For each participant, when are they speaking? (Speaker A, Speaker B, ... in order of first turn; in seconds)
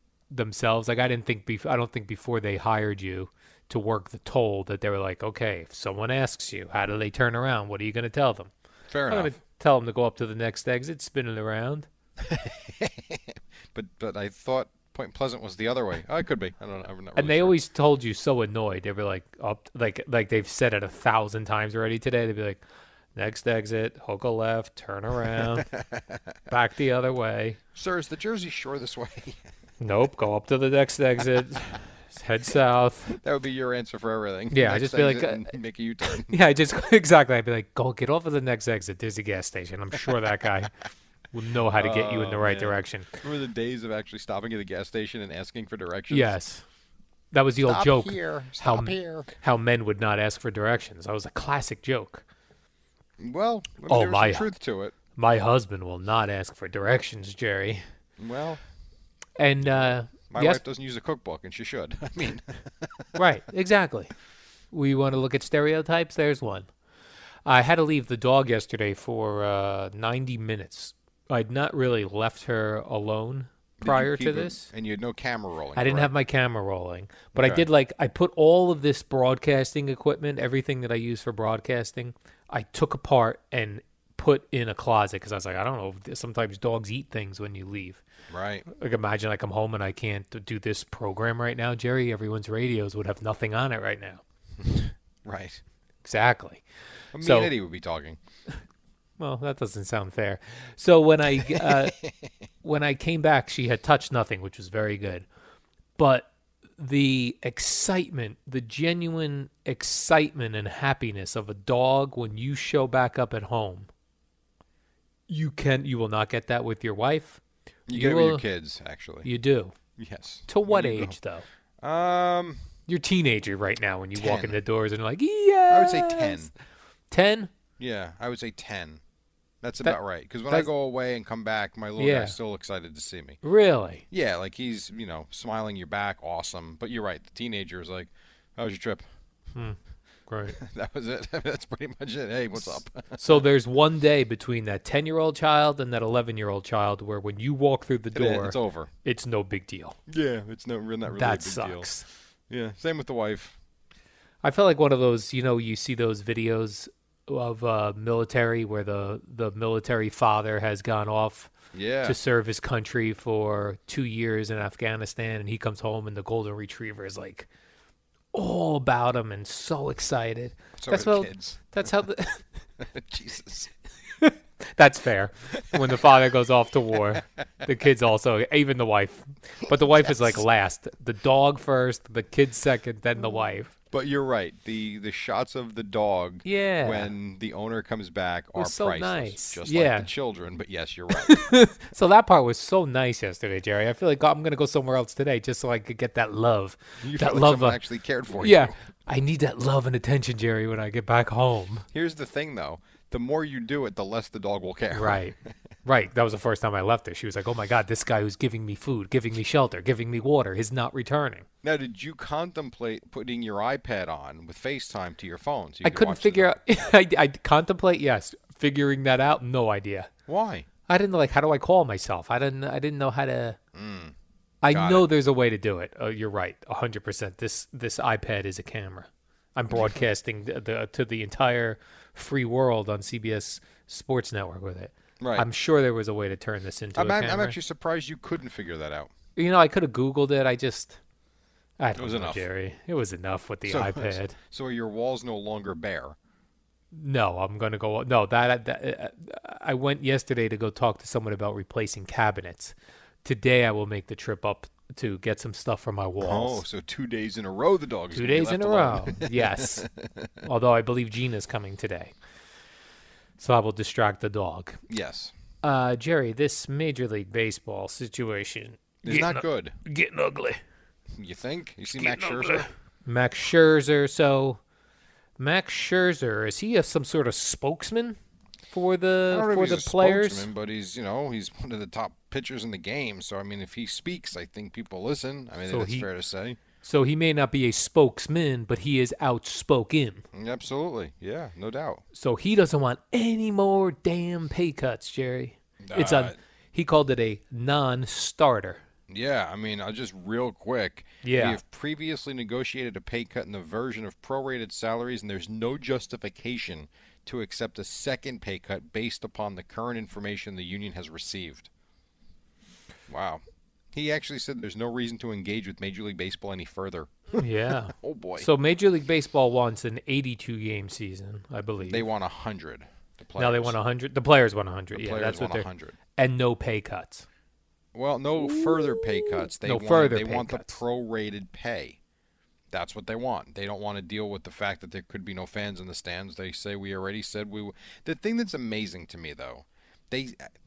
Speaker A: 0.3-8.5, 9.1-11.9, 17.2-22.6, 23.1-25.7, 26.5-27.6, 29.8-33.2, 34.5-35.5, 36.3-40.7, 41.3-43.1, 46.1-46.6, 47.3-52.2, 53.9-54.5, 55.2-57.8, 59.4-60.6, 63.1-64.1, 64.7-66.7, 67.5-74.7, 75.8-88.0, 88.7-94.2, 96.0-96.6, 97.2-97.5, 99.2-102.0, 102.6-105.3, 106.0-113.9, 115.3-118.4, 119.2-119.7, 120.5-121.5, 122.9-126.5, 127.1-127.5, 132.0-132.4, 133.4-134.0, 139.6-140.6, 142.6-150.0, 151.1-152.1, 154.4-161.5, 162.0-167.5, 168.3-172.4, 174.2-183.7, 186.4-187.1, 188.6-190.1, 191.2-197.8, 198.3-201.8, 204.9-211.5, 215.8-220.1, 220.9-223.6, 224.6-237.6, 239.4-241.0, 241.8-244.4, 246.9-256.6, 258.1-259.9, 260.4-262.1, 263.4-264.8, 265.6-270.6, 272.0-274.6, 275.4-278.2, 278.7-280.5, 285.7-286.1, 286.8-290.2, 292.1-298.8, 301.2-301.6, 317.4-322.1, 323.4-327.3, 328.4-330.8
Speaker B: 8.9-9.3, 12.2-13.2, 13.8-17.6, 25.6-26.0, 27.8-29.4, 33.2-36.4, 41.8-46.4, 47.6-49.3, 53.2-54.9, 58.2-58.6, 59.7-62.9, 73.8-76.1, 77.3-77.7, 88.3-88.7, 94.6-95.6, 97.1-98.2, 101.5-102.1, 117.9-119.3, 120.0-121.2, 121.8-122.6, 124.2-124.6, 125.7-126.5, 127.8-129.0, 129.6-133.4, 134.1-139.0, 140.6-143.4, 148.1-148.9, 150.1-151.9, 152.5-153.6, 161.7-162.2, 170.8-171.8, 172.8-173.7, 179.9-180.4, 183.9-191.4, 197.0-198.7, 201.9-205.3, 211.6-216.6, 220.3-220.7, 223.7-224.1, 224.7-225.1, 229.7-230.0, 235.2-235.5, 237.0-239.1, 242.0-242.4, 243.7-246.2, 256.2-260.3, 264.9-265.3, 269.0-269.8, 271.2-272.7, 279.3-286.6, 290.3-292.0, 295.8-296.4, 299.1-311.7, 313.1-313.4, 313.9-317.4, 318.0-318.5, 321.9-323.8, 324.9-326.0, 327.9-332.0, 332.7-340.5